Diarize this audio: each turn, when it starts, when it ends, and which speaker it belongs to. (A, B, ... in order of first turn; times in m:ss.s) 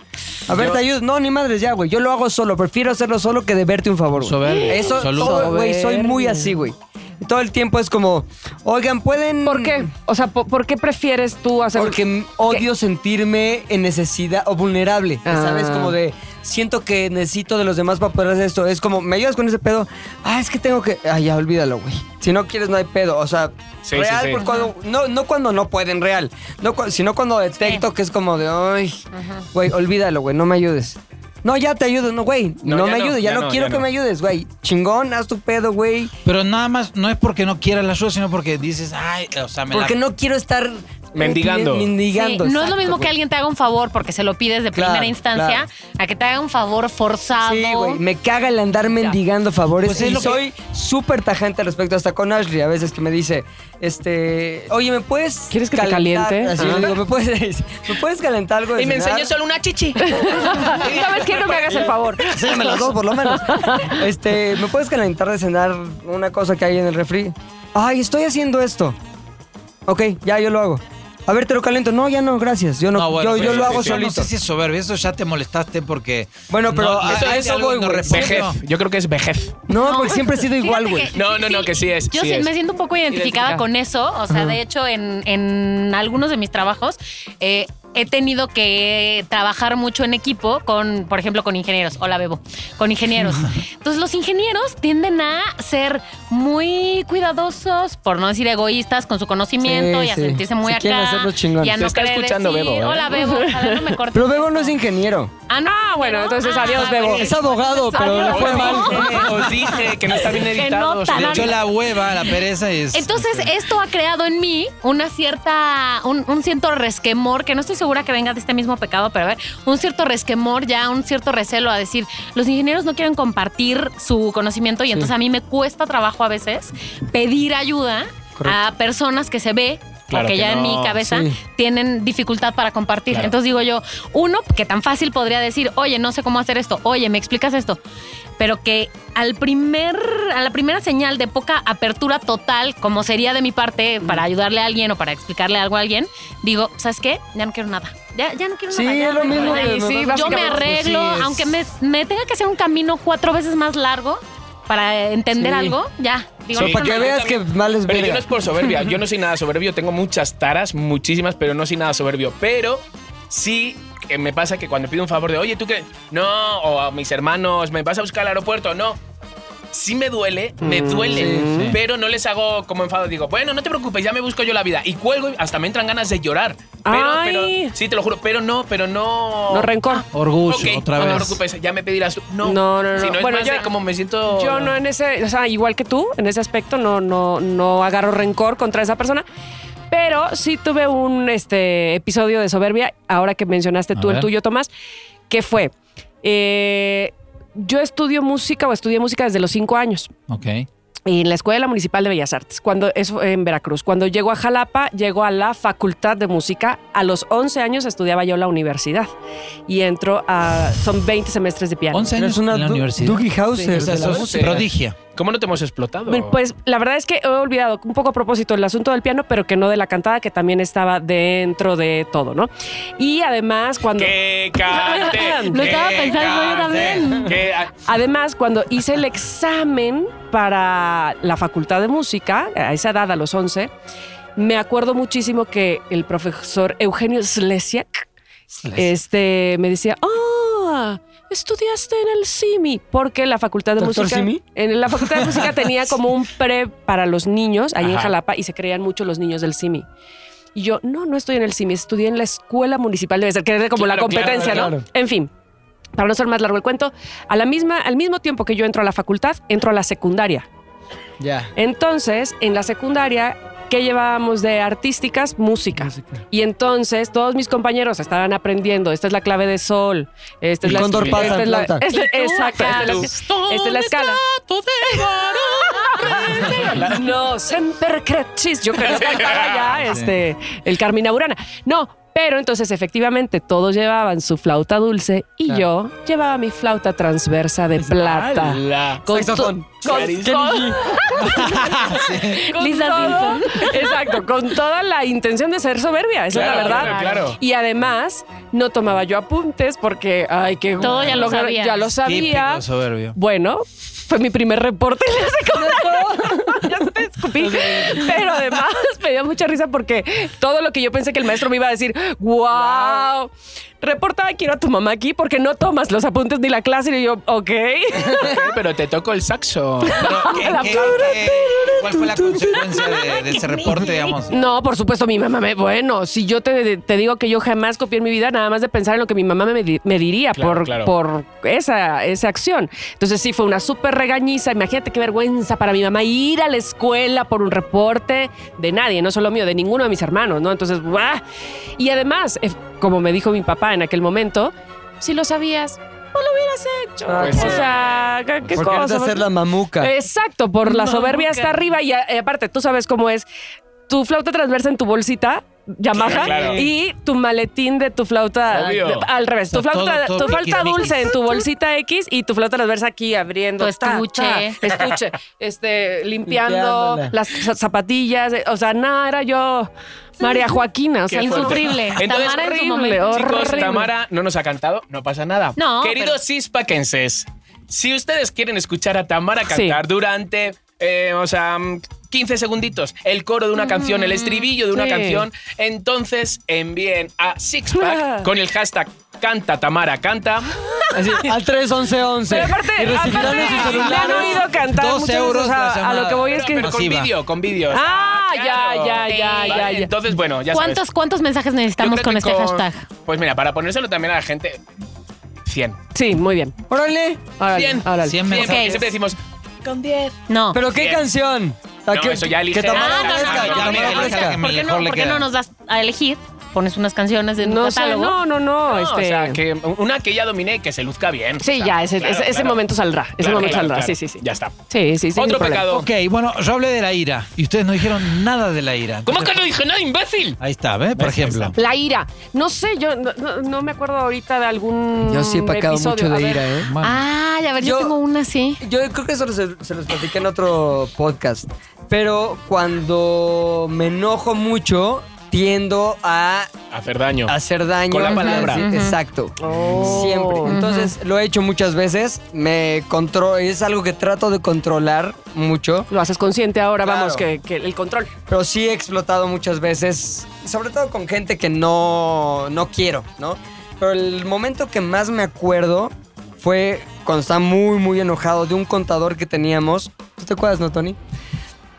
0:00.5-0:09.9 A
0:00.5-0:00.8 B
0:04.2-0:05.6 C
0:04.4-0:06.6 D
0:09.4-0:12.6 D
0:11.7-0:36.1 A
0:15.2-0:16.0 D
0:23.8-0:24.4 B
0:24.4-0:24.7 E
0:29.1-0:29.4 E
0:32.6-0:33.9 B
0:36.2-0:40.0 C
0:39.7-0:43.1 A
0:41.1-0:41.9 B
0:42.1-0:48.0 E
0:44.7-0:45.6 A
0:47.4-0:59.3 A
0:49.8-0:50.4 C
0:55.5-0:57.0 D
0:58.7-1:01.9 B
1:00.0-1:04.0 D
1:01.7-1:09.0 A
1:09.8-1:14.3 A
1:12.9-1:18.6 C
1:13.3-1:14.0 B
1:16.5-1:18.4 A
1:16.9-1:17.5 B
1:18.1-1:19.6 B
1:19.7-1:21.1 A
1:19.7-1:44.8 E
1:21.1-1:22.5 B
1:23.2-1:23.6 D
1:24.3-1:24.6 A
1:39.6-1:41.8 A
1:41.8-1:43.2 B
1:43.1-1:44.0 D
1:44.1-1:45.3 A
1:45.5-1:51.6 E
1:45.6-1:49.2 D
1:46.8-1:49.4 A
1:48.1-1:51.6 B
1:48.7-1:49.8 C
1:51.0-1:53.5 C
1:52.9-2:17.8 E
2:10.1-2:11.0 B
2:11.0-2:11.4 A
2:18.4-2:37.2 E
2:28.7-2:31.5 A
2:29.2-2:30.8 D
2:35.4-2:35.8 A
2:36.5-2:38.7 A
2:36.5-2:49.0 B
2:49.7-3:04.8 B
2:50.6-2:51.7 D
2:51.1-2:51.5 A
2:51.5-2:51.8 C
2:56.8-2:57.7 D
2:59.5-3:00.0 D
3:00.1-3:01.4 C
3:02.4-3:03.7 D
3:04.2-3:09.2 D
3:09.9-3:14.7 D
3:13.9-3:14.3 C
3:15.3-3:20.1 D
3:20.3-3:20.7 C
3:21.0-3:29.1 D
3:29.7-3:32.1 D
3:31.9-3:35.0 C
3:32.1-3:34.7 A
3:33.6-3:33.9 D
3:33.9-3:36.4 B
3:36.1-3:45.7 D
3:43.9-3:47.8 B
3:45.5-3:47.3 E
3:45.6-3:47.2 C
3:47.8-3:53.7 D
3:54.4-3:58.0 D
3:58.7-4:09.8 D
4:03.8-4:04.4 A
4:07.8-4:08.1 B
4:10.5-4:15.3 D
4:13.7-4:14.8 B
4:14.4-4:14.7 A
4:15.9-4:20.5 D
4:21.2-4:21.5 A
4:21.6-4:34.2 D
4:25.8-4:26.2 A
4:30.6-4:31.5 B
4:30.6-4:31.8 A
4:31.9-4:33.1 E
4:32.6-4:37.1 B
4:34.9-5:02.6 D
4:38.7-4:39.8 B
4:39.8-4:40.1 C
4:48.2-4:49.0 B
4:49.1-4:51.0 A
4:49.8-4:50.7 B
4:51.2-4:52.4 C
4:52.4-4:53.9 E
4:56.3-4:57.4 B
4:56.4-4:57.2 E
5:00.8-5:01.9 E
5:02.0-5:03.2 C
5:03.1-5:18.5 D
5:05.6-5:06.6 A
5:07.5-5:08.1 A
5:12.5-5:13.1 A
5:18.2-5:20.7 B
5:19.8-5:41.2 D
5:19.9-5:24.4 C
5:30.3-5:30.9 B
5:41.8-5:49.2 D
5:47.1-5:47.7 A
5:47.2-5:47.9 B
5:48.5-5:49.9 A
5:49.8-5:53.3 D
5:50.8-5:51.3 E
5:53.9-6:13.9 D
5:55.9-5:56.7 A
5:56.0-5:56.6 B
5:58.5-5:59.1 B
5:59.5-6:01.2 C
6:03.6-6:04.6 E
6:06.3-6:07.1 A
6:11.1-6:12.5 B
6:11.1-6:13.7 E
6:13.0-6:30.6 B
6:15.6-6:16.2 E
6:19.5-6:19.8 D
6:23.6-6:24.5 E
6:24.7-6:25.3 D
6:27.8-6:28.3 D
6:30.9-6:34.5 A
6:32.3-6:36.7 D
6:33.0-6:37.1 C
6:36.2-6:40.8 B
6:37.7-6:39.9 D
6:39.1-6:39.6 E
6:40.5-6:42.8 E
6:41.8-6:44.6 B
6:45.4-6:45.8 B
6:45.9-6:46.6 D
6:46.7-6:47.3 A
6:47.4-6:48.2 D
6:47.5-6:50.2 B
6:48.0-6:48.8 C
6:48.3-6:48.8 E
6:50.3-6:50.6 E
6:50.5-6:54.4 A
6:50.7-6:51.0 B
6:51.9-6:54.2 B
6:52.7-6:58.2 E
6:53.0-6:55.3 C
6:57.4-6:59.4 D
6:58.7-7:02.6 B
7:01.4-7:05.7 D
7:03.2-7:05.9 B
7:05.7-7:09.4 C
7:09.0-7:10.4 B
7:10.4-7:11.6 C
7:11.0-7:11.5 B
7:11.5-7:16.6 D
7:15.1-7:16.7 A
7:16.6-7:17.0 C
7:16.8-7:18.6 E
7:17.6-7:17.9 A
7:18.6-7:26.5 A
7:26.7-7:27.4 B
7:27.3-7:35.9 A
7:27.9-7:28.6 B
7:28.0-7:29.0 E
7:29.4-7:30.6 D
7:30.4-7:30.9 E
7:35.9-7:38.1 D
7:36.8-7:37.2 A
7:38.3-7:51.0 A